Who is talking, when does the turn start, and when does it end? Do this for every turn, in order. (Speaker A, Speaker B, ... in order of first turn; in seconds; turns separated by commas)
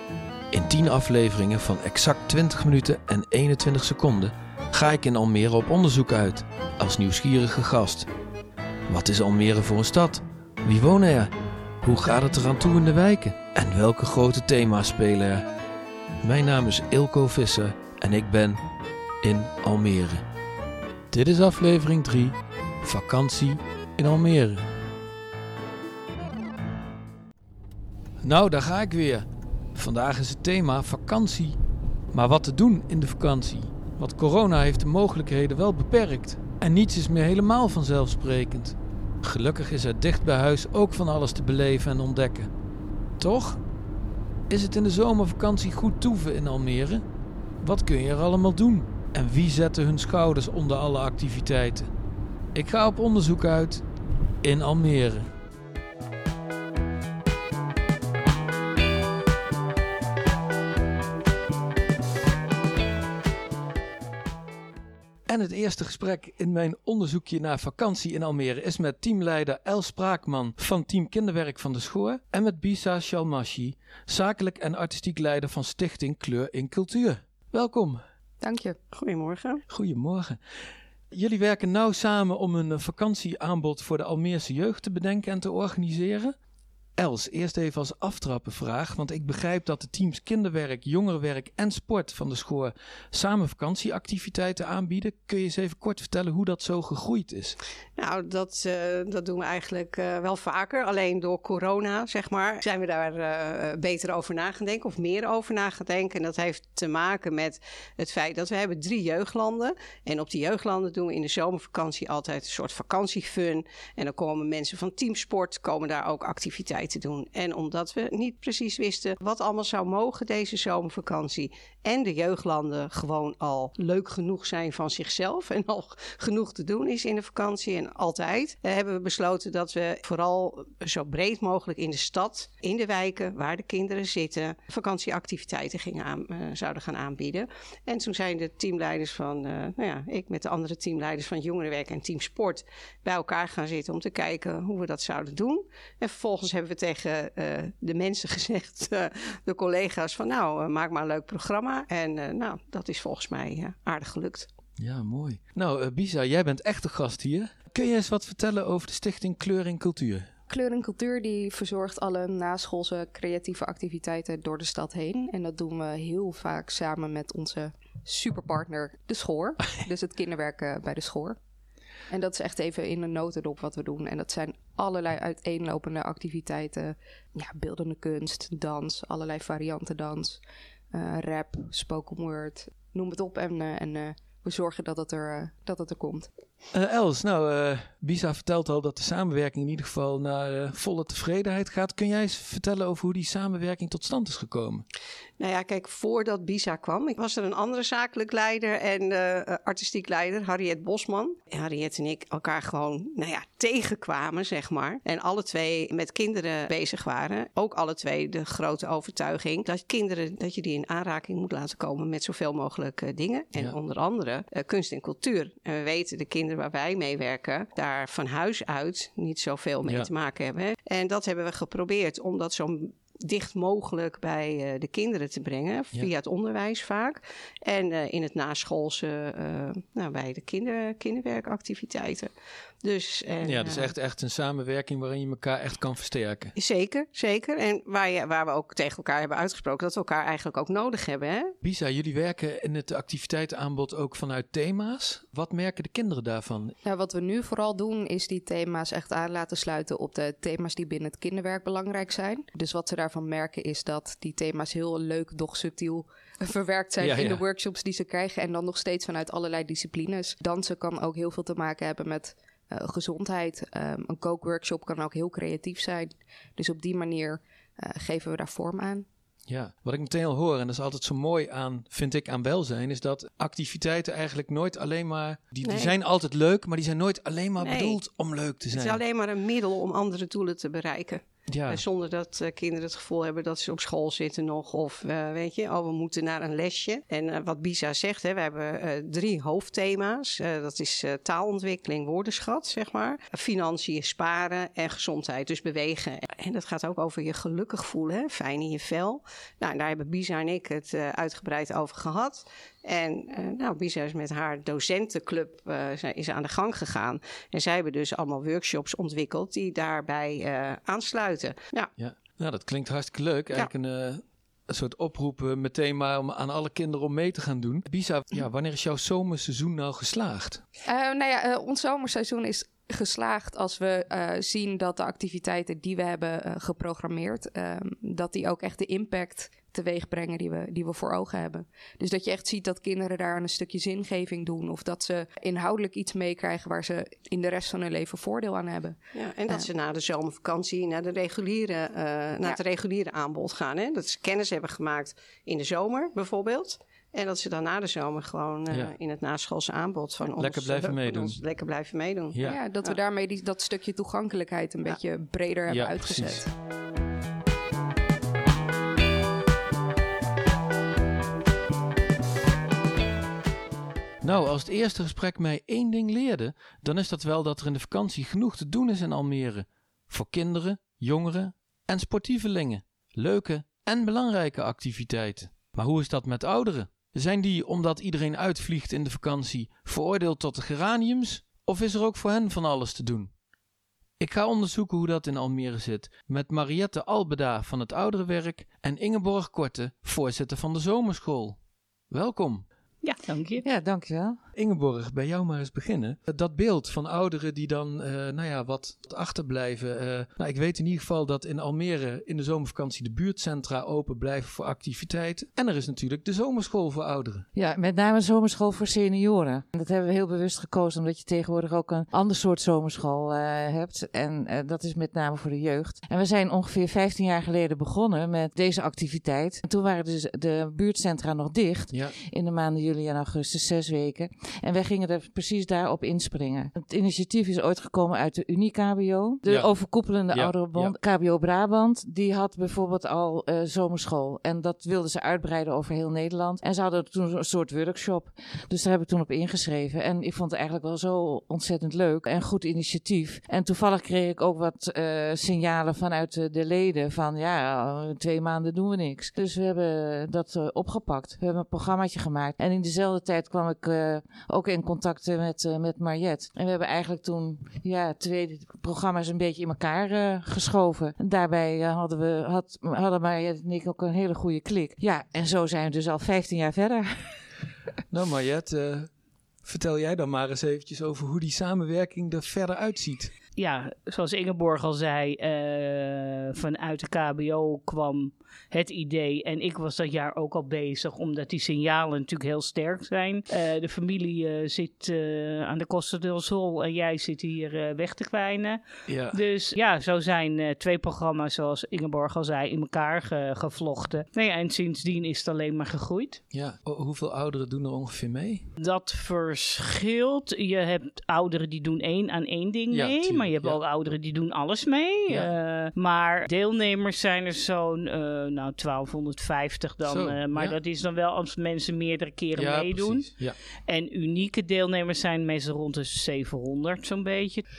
Speaker A: 0.5-8.1, Speaker A: 8.9-15.4, Speaker A: 16.2-18.6, Speaker A: 19.2-20.2, Speaker A: 21.1-24.7, Speaker A: 28.2-31.6, Speaker A: 32.1-42.5, Speaker A: 43.2-43.6, Speaker A: 44.5-47.1, Speaker A: 47.6-51.9, Speaker A: 52.5-53.9, Speaker A: 54.4-55.3, Speaker A: 65.2-78.0, Speaker B: 78.4-78.8, Speaker C: 78.9-79.6, Speaker A: 79.7-80.4, Speaker A: 81.1-86.3, Speaker A: 87.0-97.5, Speaker C: 98.0-154.5, Speaker A: 154.8-160.3, Speaker B: 160.5-171.4, Speaker B: 172.1-186.3, Speaker A: 186.7-194.8, Speaker C: 195.4-232.3, Speaker A: 219.8-220.1, Speaker C: 232.8-234.0, Speaker A: 233.4-236.5, Speaker C: 236.6-241.5, Speaker A: 241.6-246.7, Speaker B: 246.8-269.1, Speaker A: 257.0-257.4, Speaker A: 269.4-279.0, Speaker C: 275.6-276.0, Speaker C: 277.6-278.0, Speaker C: 278.7-311.9, Speaker A: 281.5-281.8, Speaker A: 312.0-320.6, Speaker B: 320.9-339.7, Speaker C: 339.1-353.0, Speaker A: 348.7-348.9, Speaker A: 350.4-351.4, Speaker A: 352.3-352.6, Speaker B: 352.4-356.5, Speaker A: 355.6-356.5, Speaker A: 364.2-383.3, Speaker A: 384.2-392.6, Speaker D: 393.0-393.6, Speaker E: 393.6-394.4, Speaker A: 394.5-407.4, Speaker E: 407.5-467.4, Speaker A: 421.9-422.1, Speaker A: 429.4-431.0, Speaker A: 468.1-469.1, Speaker A: 469.6-473.3, Speaker D: 473.6-496.4, Speaker A: 489.1-489.4, Speaker A: 496.5-498.7, Speaker D: 498.8-517.6, Speaker A: 502.9-503.8, Speaker A: 510.0-510.8, Speaker A: 512.5-513.6